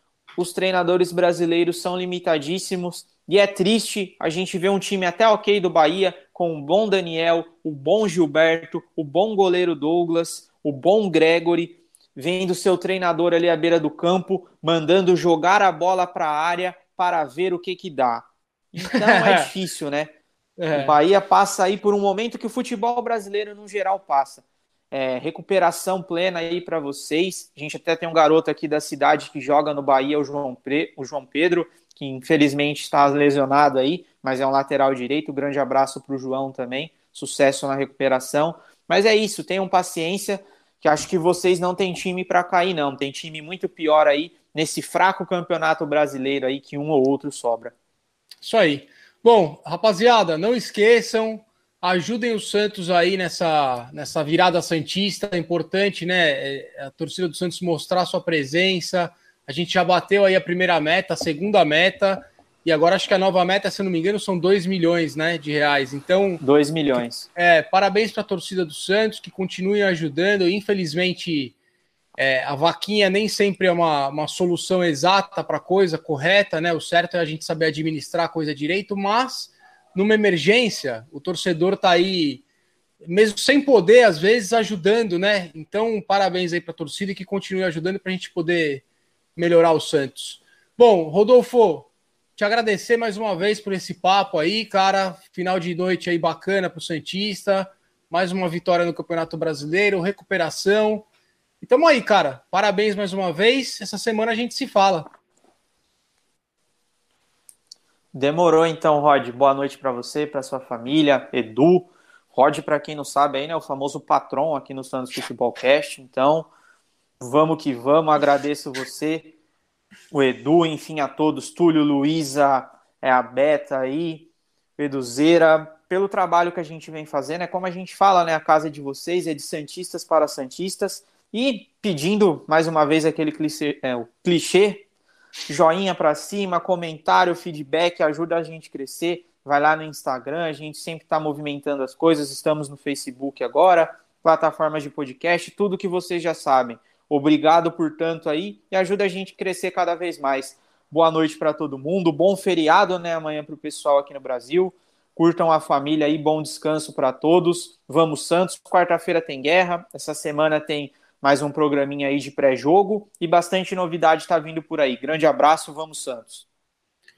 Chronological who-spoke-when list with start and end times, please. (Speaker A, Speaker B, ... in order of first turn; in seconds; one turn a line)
Speaker A: 0.4-20.1
Speaker B: 19.0-19.5
Speaker B: 20.6-21.0
Speaker A: 20.7-47.7
Speaker B: 48.4-66.4
Speaker A: 66.4-67.3
Speaker B: 66.9-71.5
Speaker B: 72.2-82.4
Speaker B: 83.0-88.8
Speaker B: 89.3-101.0
Speaker B: 101.6-105.1
Speaker A: 108.1-116.5
Speaker A: 117.2-119.3
Speaker A: 120.1-134.8
Speaker A: 135.5-166.4